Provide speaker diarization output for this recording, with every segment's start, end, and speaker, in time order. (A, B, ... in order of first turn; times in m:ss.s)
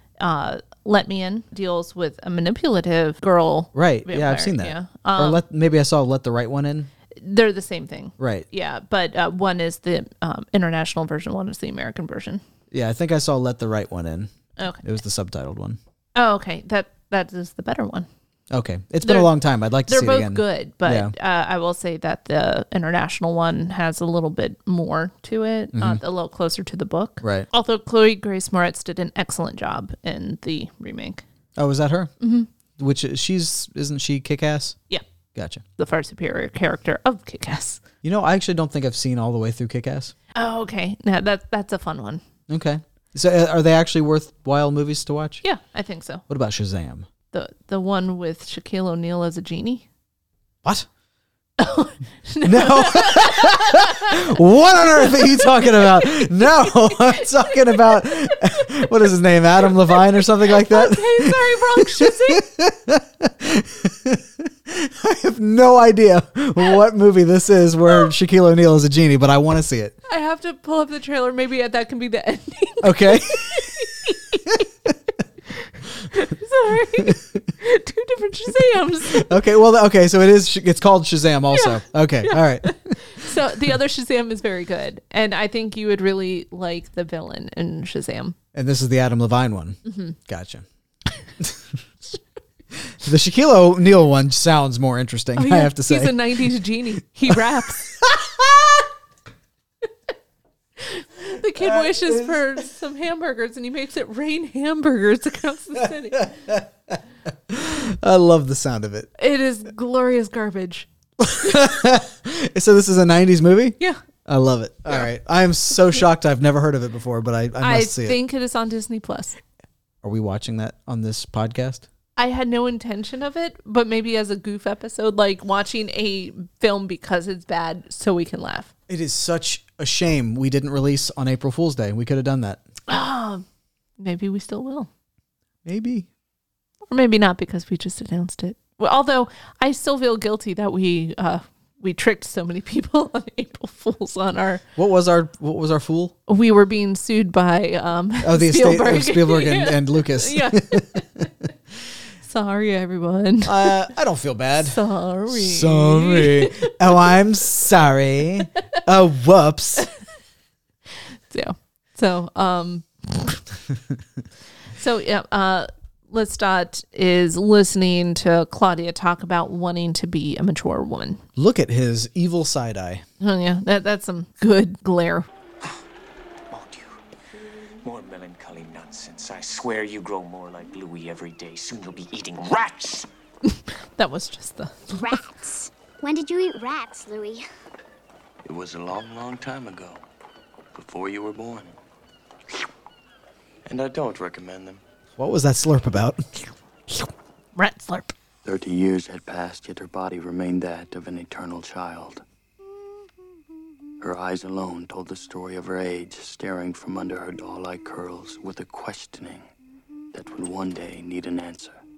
0:00.2-0:05.4 A
0:03.7-0:06.9 B
0:07.2-0:12.4 A
0:08.2-0:08.5 B
0:12.7-0:15.8 B
0:14.6-0:14.8 A
0:16.1-0:18.1 A
0:18.5-0:21.1 B
0:19.0-0:19.3 A
0:19.8-0:31.2 A
0:25.7-0:26.0 B
0:27.2-0:27.5 B
0:31.6-0:32.1 B
0:32.2-0:32.5 A
0:32.8-0:34.8 B
0:35.3-0:35.6 B
0:35.8-0:37.8 A
0:38.0-0:40.1 B
0:40.3-0:42.2 A
0:42.5-0:45.4 B
0:45.4-0:46.2 A
0:46.3-0:47.1 B
0:47.3-0:49.8 A
0:51.6-0:54.2 A
0:52.4-1:10.0 B
0:55.0-0:58.6 A
0:59.8-1:02.4 A
1:10.1-1:14.6 A
1:12.8-1:13.8 B
1:16.1-1:19.3 A
1:17.0-1:17.4 B
1:19.1-1:23.0 B
1:21.5-1:28.4 A
1:28.5-1:30.6 B
1:29.8-1:30.2 A
1:32.9-1:36.6 B
1:35.4-1:37.9 A
1:37.3-1:38.8 B
1:40.8-1:46.4 A
1:41.6-1:42.6 B
1:46.2-1:46.6 B
1:47.5-1:49.1 B
1:49.2-1:50.9 A
1:51.2-1:58.2 B
1:57.6-1:59.4 A
2:00.0-2:01.9 B
2:02.2-2:08.7 A
2:08.9-2:12.6 B
2:12.9-2:13.4 A
2:14.0-2:14.9 A
2:15.6-2:16.1 B
2:16.9-2:24.6 A
2:24.8-2:26.1 B
2:26.3-2:31.2 A
2:28.2-2:31.3 B
2:32.2-2:33.9 A
2:33.4-2:39.9 B
2:34.6-2:37.0 A
2:41.3-2:43.4 A
2:44.8-2:51.2 A
2:51.4-2:53.0 B
2:53.2-2:55.3 A
2:56.5-2:57.0 C
2:57.8-3:03.1 C
3:03.4-3:05.2 A
3:05.0-3:07.4 D
3:08.4-3:10.0 E
3:10.7-3:11.8 E
3:13.6-3:14.8 E
3:15.2-3:16.2 B
3:17.5-3:18.1 A
3:18.4-3:22.2 E
3:24.0-3:29.5 E
3:30.1-3:31.8 E